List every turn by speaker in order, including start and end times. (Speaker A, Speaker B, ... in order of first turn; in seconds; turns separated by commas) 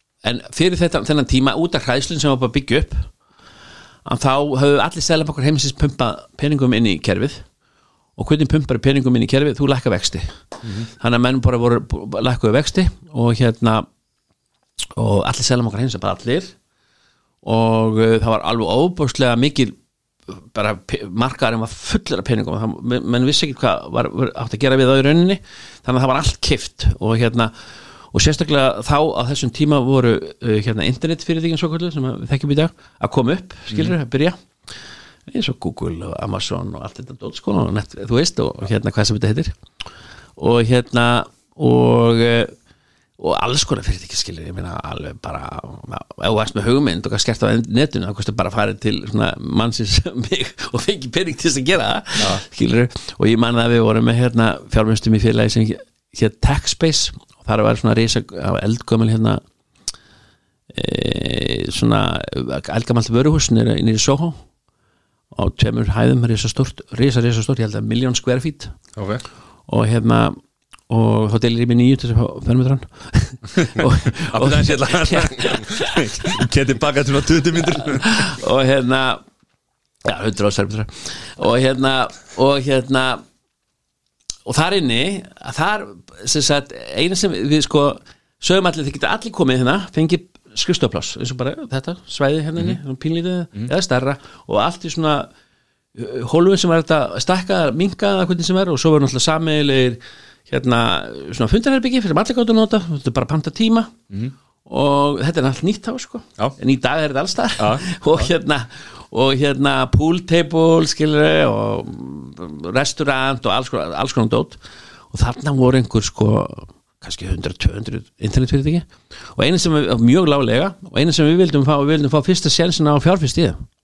Speaker A: 0.2-3.1, Speaker A: 4.0-7.4, Speaker A: 8.2-10.3, Speaker A: 11.0-13.8, Speaker A: 14.9-16.5, Speaker A: 17.4-19.8, Speaker A: 20.3-27.5, Speaker A: 28.1-34.4, Speaker A: 35.3-39.5, Speaker A: 40.4-42.5, Speaker A: 43.2-59.4, Speaker A: 60.7-64.4, Speaker A: 65.3-68.7, Speaker B: 69.0-69.2, Speaker A: 69.7-76.5, Speaker B: 73.6-78.3, Speaker A: 77.6-79.2, Speaker A: 80.0-83.2, Speaker A: 84.4-95.3, Speaker A: 95.9-103.9, Speaker A: 104.7-114.6, Speaker B: 107.6-108.3, Speaker A: 115.1-123.6